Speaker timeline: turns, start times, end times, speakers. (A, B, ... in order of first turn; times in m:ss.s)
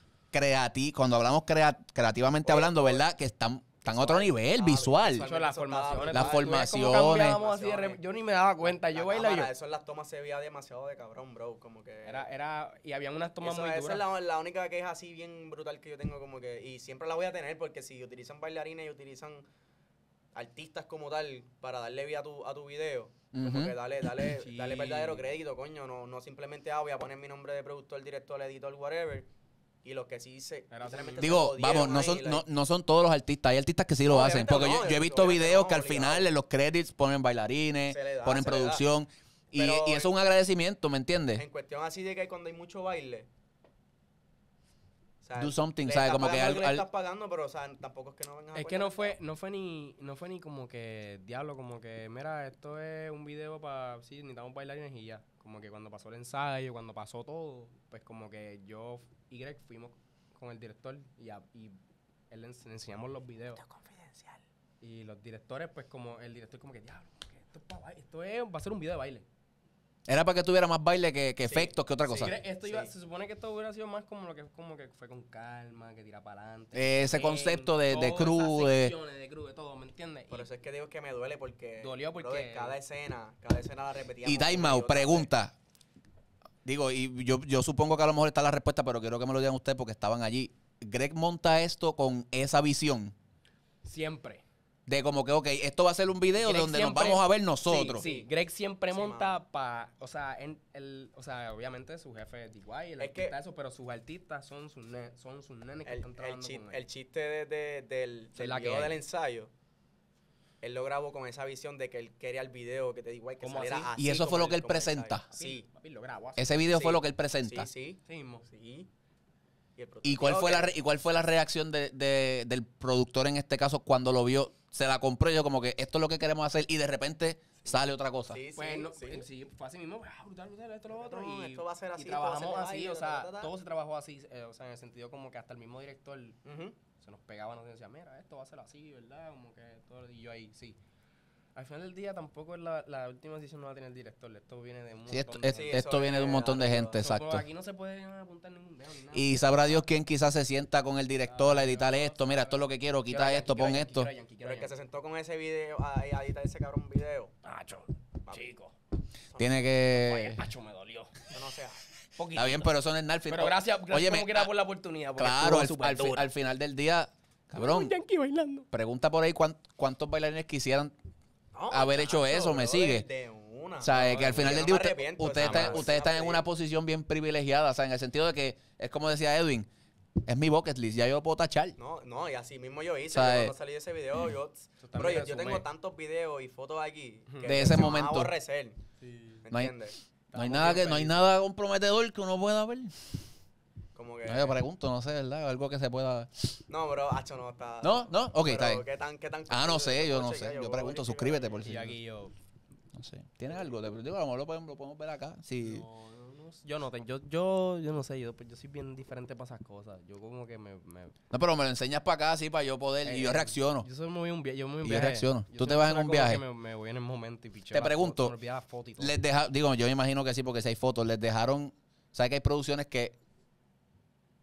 0:00.3-0:05.3 A
0:02.4-0:03.0 B
0:03.9-0:08.0 B
0:05.2-0:09.5 C
0:06.1-0:07.4 A
0:08.6-0:12.3 B
0:12.0-0:14.0 C
0:13.4-0:19.5 B
0:20.3-0:29.3 B
0:23.3-0:23.8 A
0:24.3-0:25.2 C
0:29.8-0:32.4 B
0:30.7-0:31.4 C
0:31.2-0:41.4 A
0:34.1-0:36.3 B
0:37.9-0:38.8 B
0:39.5-0:40.1 B
0:41.4-0:43.3 B
0:45.2-0:49.2 B
0:45.4-0:46.8 A
0:48.5-1:01.8 C
1:02.3-1:03.6 C
1:03.6-1:04.4 B
1:04.8-1:09.2 C
1:10.1-1:12.4 A
1:11.4-1:11.7 B
1:12.0-1:20.5 C
1:12.6-1:12.9 B
1:16.7-1:18.9 A
1:20.3-1:25.3 B
1:21.8-1:22.8 C
1:24.2-1:25.5 A
1:26.6-1:33.1 A
1:33.8-1:34.4 C
1:34.9-1:38.0 A
1:36.4-1:46.8 C
1:37.9-1:38.3 B
1:38.9-1:39.4 B
1:43.0-1:43.4 B
1:45.8-1:49.5 B
1:48.4-1:49.0 C
1:50.6-1:55.6 B
1:53.4-1:53.9 C
1:54.0-1:55.2 A
1:55.3-1:56.5 C
1:56.4-1:57.7 A
1:56.7-1:58.9 B
1:58.1-1:58.4 C
1:59.8-2:00.7 B
2:00.0-2:08.4 A
2:08.3-2:09.2 B
2:08.6-2:16.4 C
2:10.9-2:13.5 B
2:16.4-2:16.8 B
2:17.0-2:20.8 C
2:21.5-2:25.8 C
2:25.1-2:27.4 A
2:25.5-2:27.0 B
2:26.9-2:29.8 C
2:29.1-2:34.1 A
2:31.2-2:34.7 C
2:34.4-2:37.3 B
2:37.4-2:38.7 C
2:39.3-2:39.6 B
2:39.4-2:40.4 A
2:39.9-2:41.3 C
2:41.3-2:41.8 B
2:42.2-2:42.7 C
2:42.3-2:44.5 A
2:43.3-2:46.2 C
2:45.2-2:47.9 A
2:47.5-2:48.7 C
2:48.7-2:50.9 A
2:51.5-2:56.4 B
2:51.7-2:53.1 A
2:53.8-2:59.7 A
2:53.9-2:54.6 C
2:55.4-2:55.9 C
3:00.2-3:01.8 A
3:01.8-3:08.8 B
3:03.1-3:03.5 A
3:04.8-3:05.6 C
3:07.3-3:07.8 C
3:07.4-3:08.3 A
3:09.0-3:09.4 C
3:09.4-3:10.0 B
3:10.3-3:11.2 C
3:10.3-3:12.9 A
3:13.9-3:14.6 B
3:14.2-3:16.5 A
3:16.7-3:21.6 B
3:17.8-3:18.8 A
3:19.5-3:21.9 A
3:21.6-3:22.3 C
3:22.9-3:25.8 A
3:25.6-3:31.1 C
3:31.3-3:33.9 A
3:33.0-3:39.2 C
3:34.8-3:36.4 A
3:37.7-3:38.3 A
3:39.0-3:43.2 A